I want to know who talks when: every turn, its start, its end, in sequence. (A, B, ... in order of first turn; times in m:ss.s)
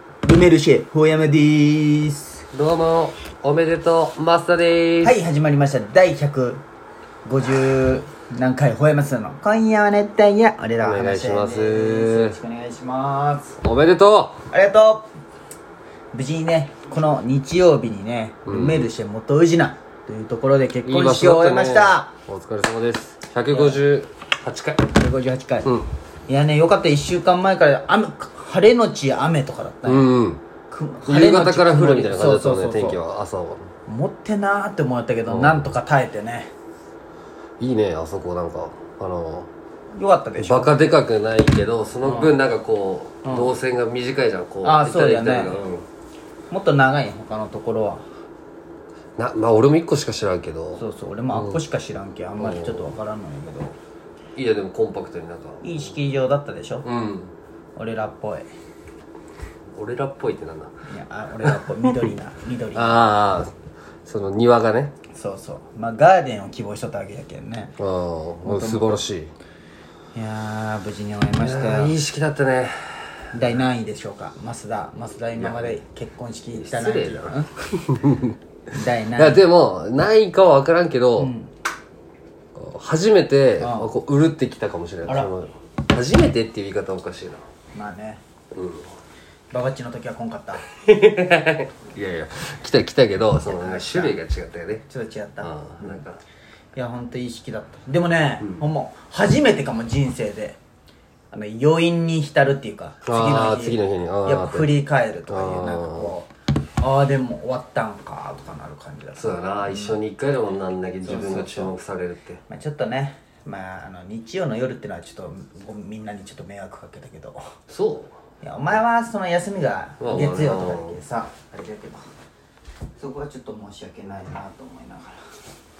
0:00.2-0:02.4 A
0:02.5-0:05.2 B
0:05.0-0:06.6 A
0:07.2-0:13.6 A
0:10.8-0:12.4 B
0:13.6-0:14.4 B
0:14.5-0:15.1 A
0:16.1-0:22.1 A
0:18.4-0:18.9 B
0:20.8-0:24.9 B
0:23.5-0:23.8 A
0:24.9-0:25.7 A
0:25.6-0:25.9 B
0:26.3-0:30.0 A
0:29.8-0:30.4 B
0:30.7-0:33.0 A
0:31.0-0:33.7 B
0:33.8-0:36.5 A
0:35.2-0:35.6 B
0:37.6-0:39.5 B
0:39.9-0:40.8 A
0:40.4-0:45.9 B
0:42.0-0:42.4 A
0:43.2-0:43.5 A
0:44.6-0:45.6 A
0:46.5-0:48.0 A
0:49.2-0:51.6 B
0:50.8-0:53.8 A
0:52.4-0:52.9 B
0:54.4-0:55.8 B
0:55.6-0:56.8 A
0:56.8-0:57.3 B
0:57.8-0:58.4 A
0:59.7-1:00.7 B
1:00.8-1:03.1 A
1:01.4-1:01.9 B
1:02.7-1:03.5 B
1:04.0-1:04.9 B
1:05.1-1:07.8 A
1:07.8-1:09.3 B
1:08.4-1:09.0 A
1:10.1-1:11.9 A
1:11.4-1:13.3 B
1:13.3-1:17.5 A
1:15.3-1:15.8 B
1:16.6-1:18.4 B
1:18.7-1:19.4 A
1:19.2-1:21.3 B
1:21.2-1:21.5 A
1:22.5-1:27.4 B
1:23.6-1:23.9 A
1:27.7-1:28.2 A
1:28.5-1:28.9 B
1:29.5-1:30.6 A
1:30.7-1:34.8 B
1:33.4-1:34.2 A
1:34.9-1:36.0 A
1:35.4-1:36.2 B
1:36.7-1:40.6 A
1:41.3-1:50.0 A
1:43.0-1:44.7 B
1:45.3-1:46.1 B
1:49.2-1:52.4 B
1:51.0-1:51.8 A
1:52.5-1:57.4 A
1:57.7-1:58.1 B
1:58.4-2:02.1 A
2:00.0-2:01.0 B
2:03.0-2:05.3 A